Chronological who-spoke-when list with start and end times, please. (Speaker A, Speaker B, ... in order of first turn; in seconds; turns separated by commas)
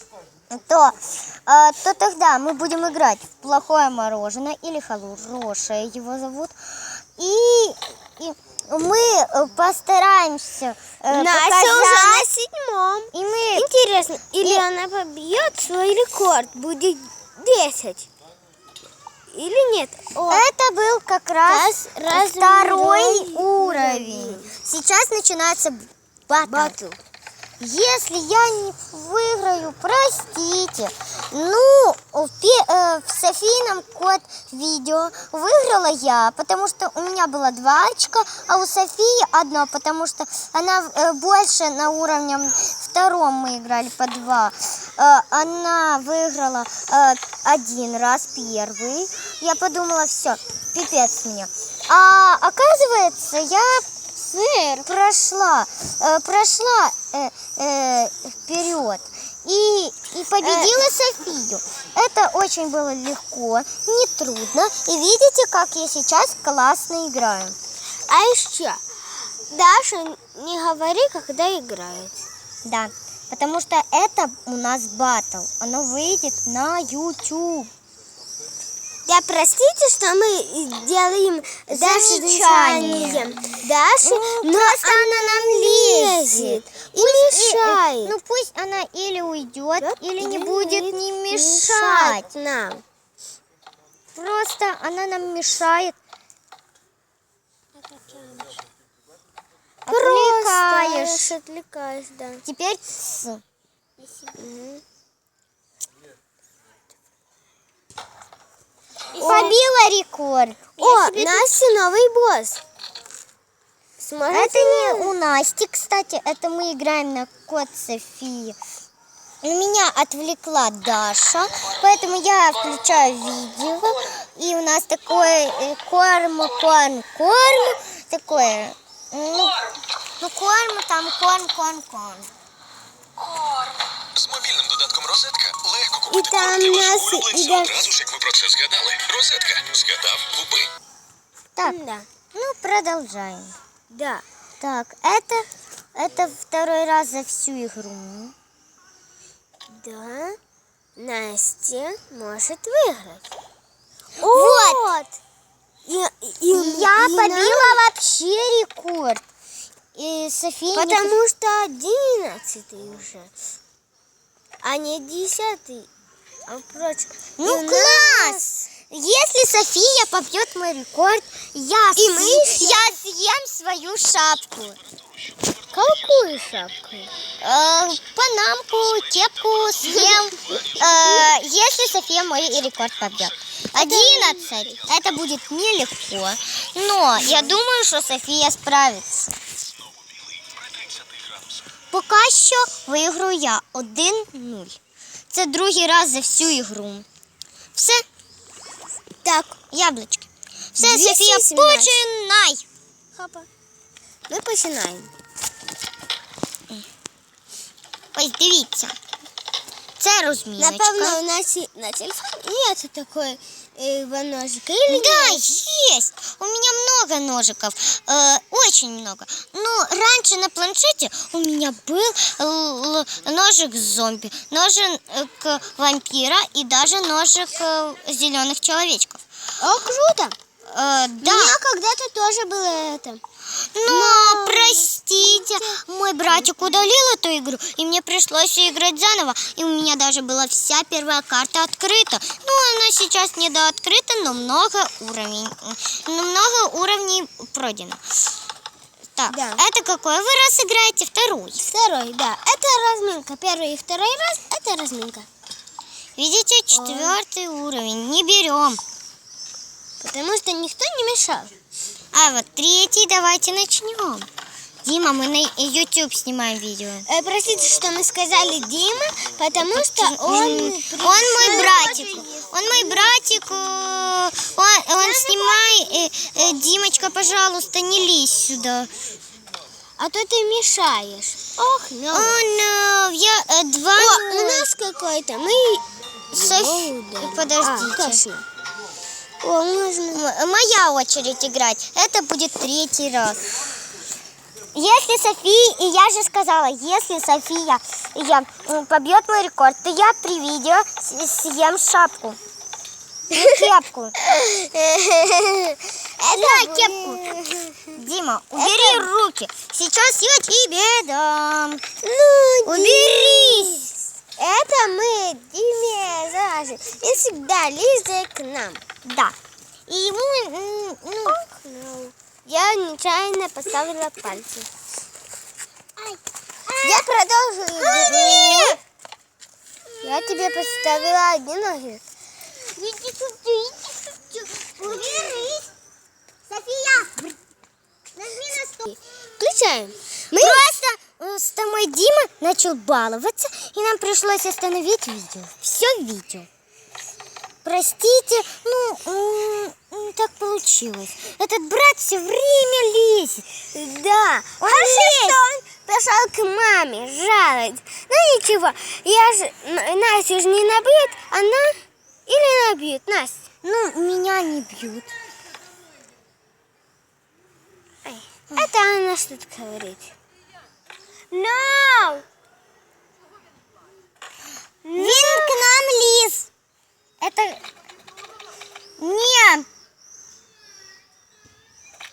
Speaker A: 0.5-12.3, Speaker B: 11.1-18.1, Speaker A: 13.1-13.7, Speaker B: 19.3-20.5, Speaker A: 20.3-26.8, Speaker B: 21.5-24.5, Speaker B: 26.4-27.0, Speaker A: 27.6-53.9, Speaker B: 54.3-54.9, Speaker A: 54.9-67.6, Speaker B: 60.4-60.8, Speaker B: 68.1-68.8, Speaker B: 69.5-72.2, Speaker A: 72.7-77.7, Speaker B: 79.1-88.1, Speaker A: 81.7-83.3, Speaker A: 84.0-92.3, Speaker B: 89.8-92.8, Speaker A: 94.2-96.0, Speaker B: 97.8-98.6, Speaker A: 99.9-101.3, Speaker B: 99.9-102.4, Speaker A: 102.5-103.4, Speaker B: 104.3-104.8, Speaker B: 109.1-109.6, Speaker A: 109.2-111.5, Speaker B: 110.8-112.6, Speaker B: 114.0-115.1, Speaker A: 114.3-118.6, Speaker A: 119.4-129.6, Speaker A: 130.2-132.3, Speaker C: 134.3-135.9, Speaker B: 135.9-138.1, Speaker C: 138.2-140.6, Speaker B: 141.6-142.1, Speaker A: 142.3-143.6, Speaker B: 143.9-144.2, Speaker A: 144.6-148.3, Speaker B: 149.7-150.4, Speaker B: 151.0-153.2, Speaker B: 154.2-155.1, Speaker A: 154.2-154.9, Speaker B: 155.8-157.8, Speaker A: 156.5-159.2, Speaker A: 159.9-161.2, Speaker B: 160.7-163.3, Speaker B: 164.6-165.9, Speaker B: 166.5-168.7, Speaker A: 167.4-174.8, Speaker B: 172.0-173.0, Speaker B: 175.7-177.1, Speaker A: 177.4-189.3, Speaker B: 183.7-184.8, Speaker B: 187.2-187.6, Speaker A: 191.9-194.8, Speaker A: 195.3-197.1, Speaker A: 197.8-198.1, Speaker B: 199.2-199.6, Speaker A: 199.7-202.7, Speaker B: 200.8-202.0, Speaker B: 203.1-203.5, Speaker B: 204.3-205.1, Speaker A: 208.1-209.0, Speaker A: 210.0-211.2, Speaker B: 210.6-215.7, Speaker A: 214.9-229.2, Speaker B: 229.6-230.3, Speaker A: 230.7-231.6, Speaker B: 231.2-233.2, Speaker A: 233.8-248.0, Speaker B: 233.9-236.7, Speaker A: 249.2-251.6, Speaker B: 249.3-249.6, Speaker B: 251.6-255.3, Speaker A: 256.2-258.8, Speaker B: 256.7-257.2, Speaker B: 260.0-261.5, Speaker A: 262.1-264.3, Speaker A: 264.9-267.1, Speaker B: 267.1-273.2, Speaker A: 269.7-278.9, Speaker B: 275.0-275.9, Speaker B: 280.0-282.4, Speaker A: 282.1-284.7, Speaker B: 283.9-288.5, Speaker A: 286.3-288.2, Speaker B: 289.4-290.2, Speaker A: 290.1-293.4, Speaker A: 294.7-302.4, Speaker A: 303.3-304.1, Speaker B: 304.2-307.9, Speaker A: 306.3-307.2, Speaker A: 307.9-311.8, Speaker B: 308.6-309.1, Speaker B: 312.0-318.8, Speaker A: 312.7-313.8, Speaker A: 319.0-319.4, Speaker A: 319.9-321.4, Speaker B: 321.3-324.7, Speaker A: 326.0-327.1, Speaker B: 326.8-328.8, Speaker A: 327.8-328.8, Speaker B: 330.0-332.0, Speaker A: 332.6-335.7, Speaker B: 334.9-335.4, Speaker A: 336.5-337.4, Speaker A: 338.2-338.8, Speaker B: 338.9-340.7, Speaker A: 340.3-346.5, Speaker A: 347.6-353.5, Speaker B: 353.7-363.4, Speaker A: 354.6-355.4, Speaker A: 363.6-365.1, Speaker B: 368.1-370.1, Speaker B: 371.3-372.2, Speaker B: 374.8-375.6, Speaker A: 374.9-376.5, Speaker A: 377.2-377.6, Speaker A: 379.0-379.7